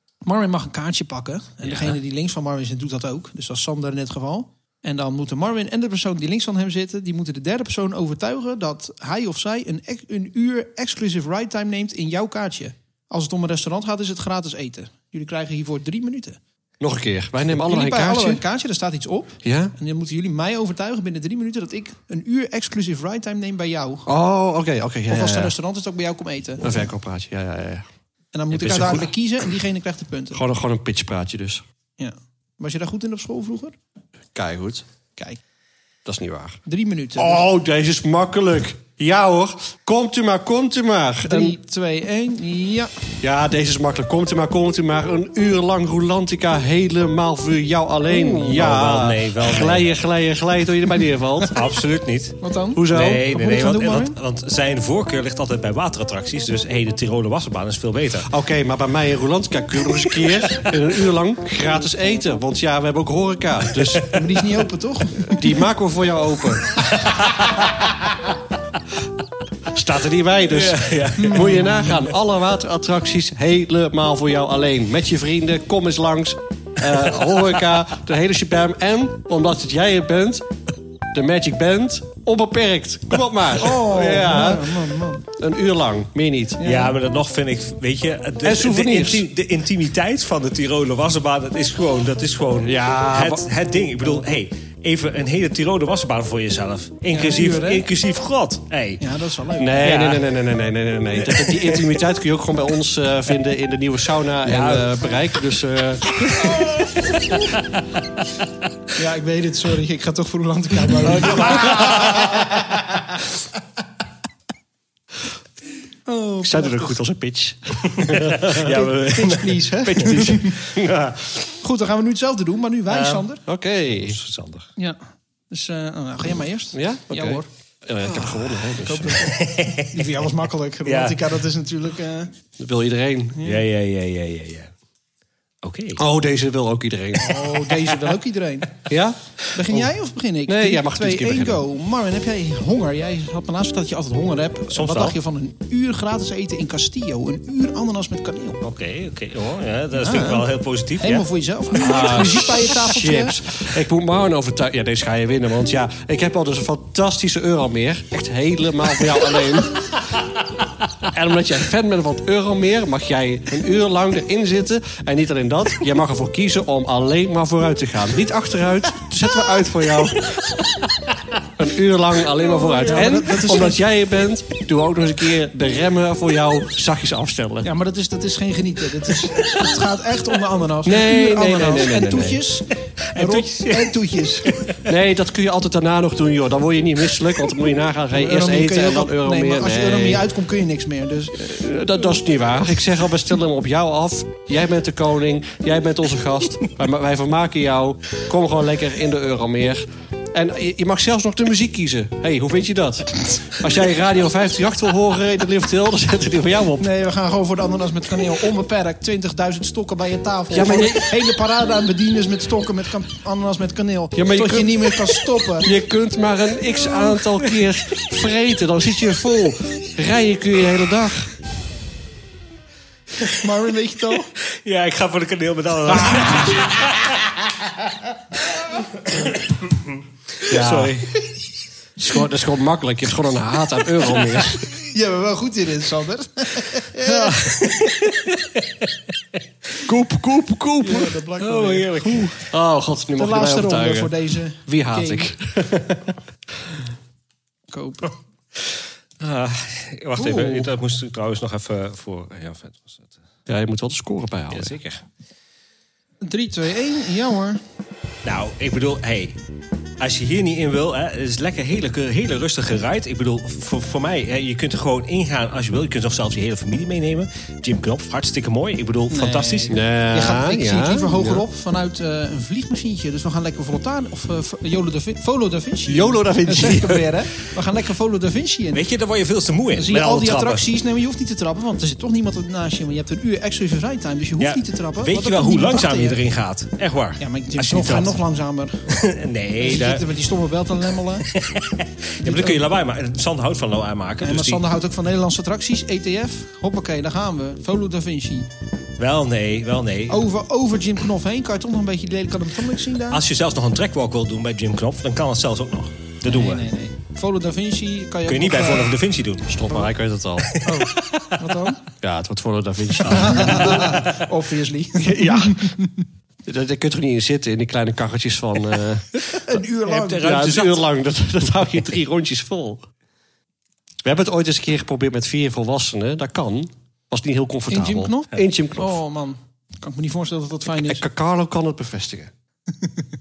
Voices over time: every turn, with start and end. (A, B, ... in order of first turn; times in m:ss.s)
0:00.2-0:16.4 A
0:01.6-0:02.0 B
0:16.8-0:18.4 C
0:17.5-0:24.1 A
0:19.4-0:19.7 C
0:24.1-0:25.5 C
0:25.1-0:26.7 A
0:26.6-0:27.9 C
0:28.3-0:30.4 A
0:28.5-0:29.1 B
0:30.3-0:31.6 C
0:32.0-0:33.8 A
0:34.3-0:34.8 C
0:36.0-0:36.6 C
0:36.7-0:37.4 A
0:37.2-0:41.6 C
0:41.2-0:43.0 A
0:43.2-0:51.6 C
0:48.2-0:49.9 B
0:51.5-0:58.3 B
0:52.4-0:54.2 A
0:52.8-0:53.3 C
0:58.2-1:04.2 C
1:00.2-1:00.7 B
1:04.1-1:05.6 A
1:05.2-1:06.8 C
1:06.8-1:08.3 B
1:09.7-1:20.5 C
1:10.5-1:11.7 B
1:11.2-1:12.0 A
1:17.0-1:17.4 B
1:21.1-1:26.6 C
1:23.6-1:25.2 A
1:26.6-1:27.0 A
1:26.6-1:39.0 B
1:28.4-1:29.3 C
1:32.6-1:33.5 C
1:37.1-1:37.8 A
1:39.0-1:40.0 A
1:39.6-1:46.5 C
1:39.8-1:40.3 B
1:41.4-1:41.8 B
1:44.4-1:44.9 B
1:46.2-1:47.8 B
1:46.4-1:46.7 A
1:49.0-1:53.0 A
1:51.0-1:52.8 B
1:56.1-1:56.9 A
1:56.4-1:58.6 C
1:57.9-2:01.4 B
1:58.5-2:00.6 A
2:00.0-2:01.0 C
2:01.6-2:03.4 A
2:02.9-2:03.3 B
2:03.5-2:04.2 C
2:03.9-2:04.7 B
2:04.8-2:07.5 A
2:06.7-2:09.3 C
2:08.1-2:12.3 A
2:09.1-2:10.1 B
2:10.8-2:11.3 B
2:12.6-2:13.4 C
2:13.4-2:13.6 A
2:13.4-2:14.7 B
2:15.6-2:16.0 B
2:16.0-2:17.5 C
2:17.2-2:18.8 A
2:18.9-2:19.9 C
2:19.5-2:28.6 A
2:20.5-2:21.6 C
2:24.7-2:25.2 B
2:28.6-2:31.3 B
2:30.0-2:33.4 A
2:31.8-2:40.0 C
2:41.1-2:50.5 C
2:50.6-2:50.8 B
2:51.6-2:57.7 C
2:52.7-2:53.8 A
2:57.6-3:04.7 A
2:59.3-2:59.6 B
3:00.8-3:02.4 C
3:03.1-3:04.9 B
3:04.8-3:10.3 C
3:08.1-3:11.5 A
3:11.3-3:26.9 C
3:26.8-3:35.7 A
3:30.5-3:31.2 C
3:34.2-3:41.3 C
3:43.3-3:44.3 A
3:44.4-3:47.8 B
3:45.9-3:46.6 A
3:48.6-3:51.1 B
3:50.5-3:51.0 C
3:52.0-3:54.7 C
3:54.6-3:57.5 A
3:57.0-3:59.0 B
3:59.8-4:01.2 C
4:00.8-4:02.4 A
4:01.4-4:02.4 B
4:02.4-4:06.2 C
4:03.2-4:05.3 A
4:07.7-4:08.1 A
4:09.2-4:13.1 B
4:10.2-4:10.7 A
4:13.5-4:14.8 C
4:14.5-4:15.0 B
4:16.2-4:17.6 A
4:18.2-4:19.4 B
4:20.0-4:29.8 B
4:29.1-4:38.8 A
4:29.7-4:31.4 C
4:35.9-4:37.1 C
4:38.7-4:40.7 B
4:39.8-4:46.2 A
4:44.4-4:48.2 B
4:47.2-4:48.8 A
4:48.9-4:50.1 B
4:49.6-4:51.3 A
4:51.3-4:54.6 B
4:52.2-4:52.6 A
4:54.2-4:58.5 A
4:59.0-5:00.2 B
5:00.1-5:03.2 A
5:03.1-5:06.7 B
5:06.3-5:08.9 A
5:08.3-5:09.8 B
5:09.5-5:10.5 C
5:10.4-5:11.4 B
5:10.6-5:11.8 A
5:12.0-5:14.1 C
5:13.0-5:16.0 A
5:15.0-5:15.7 C
5:16.4-5:19.2 C
5:19.3-5:20.4 A
5:19.8-5:20.8 B
5:20.2-5:22.8 C
5:24.0-5:29.0 C
5:27.7-5:31.0 A
5:30.7-5:32.3 C